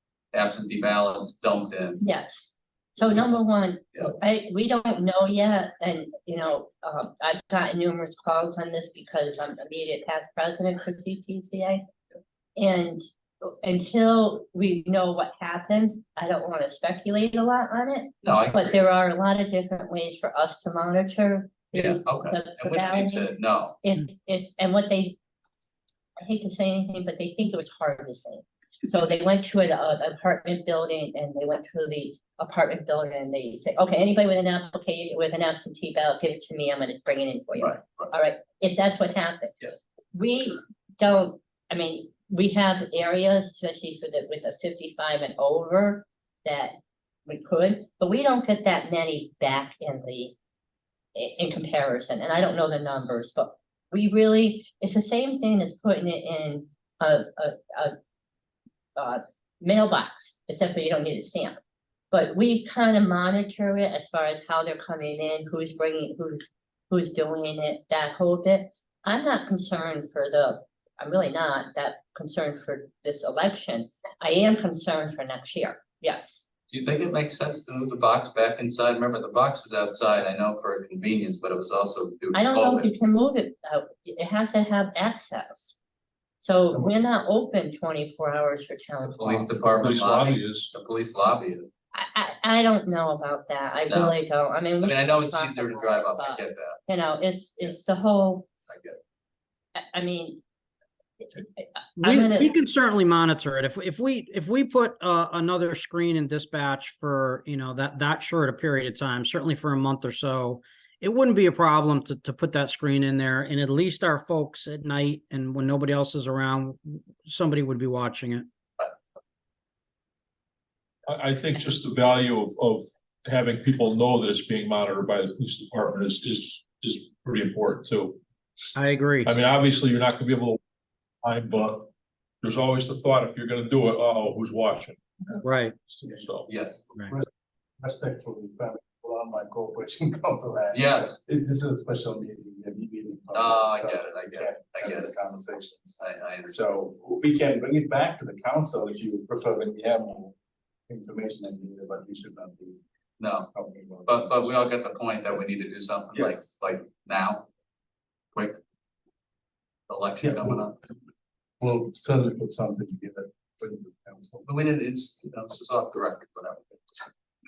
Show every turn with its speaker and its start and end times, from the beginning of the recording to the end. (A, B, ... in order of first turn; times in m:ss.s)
0:00.3-0:02.0 A
0:02.0-0:11.8 B
0:12.6-0:25.2 B
0:18.2-0:18.8 A
0:21.7-0:23.8 A
0:26.2-0:39.6 B
0:37.6-0:38.1 A
0:40.1-0:50.4 B
0:51.2-0:57.9 B
0:59.0-1:01.6 B
1:02.1-1:16.5 B
1:16.7-1:22.9 A
1:22.3-1:25.8 B
1:26.4-1:29.5 B
1:29.2-1:31.7 A
1:29.8-1:30.7 C
1:31.9-1:38.5 B
1:33.9-1:34.2 A
1:34.8-1:36.8 A
1:38.7-1:39.0 A
1:39.8-1:40.4 B
1:41.2-1:42.6 B
1:42.0-1:58.5 D
2:01.1-2:08.2 C
2:08.8-2:09.4 D
2:09.2-2:10.6 C
2:11.2-2:11.9 C
2:12.4-2:15.0 C
2:15.4-2:15.8 D
2:16.0-2:16.5 C
2:16.5-2:16.8 A
2:17.8-2:30.4 E
2:20.7-2:21.2 A
2:23.3-2:25.1 A
2:26.0-2:26.6 A
2:30.9-2:32.8 E
2:33.2-2:33.5 A
2:33.5-2:34.5 E
2:34.1-2:37.5 A
2:36.1-2:36.5 E
2:38.3-2:38.6 A
2:39.9-2:40.8 A
2:40.2-2:40.7 E
2:41.6-2:44.5 E
2:44.5-2:46.8 A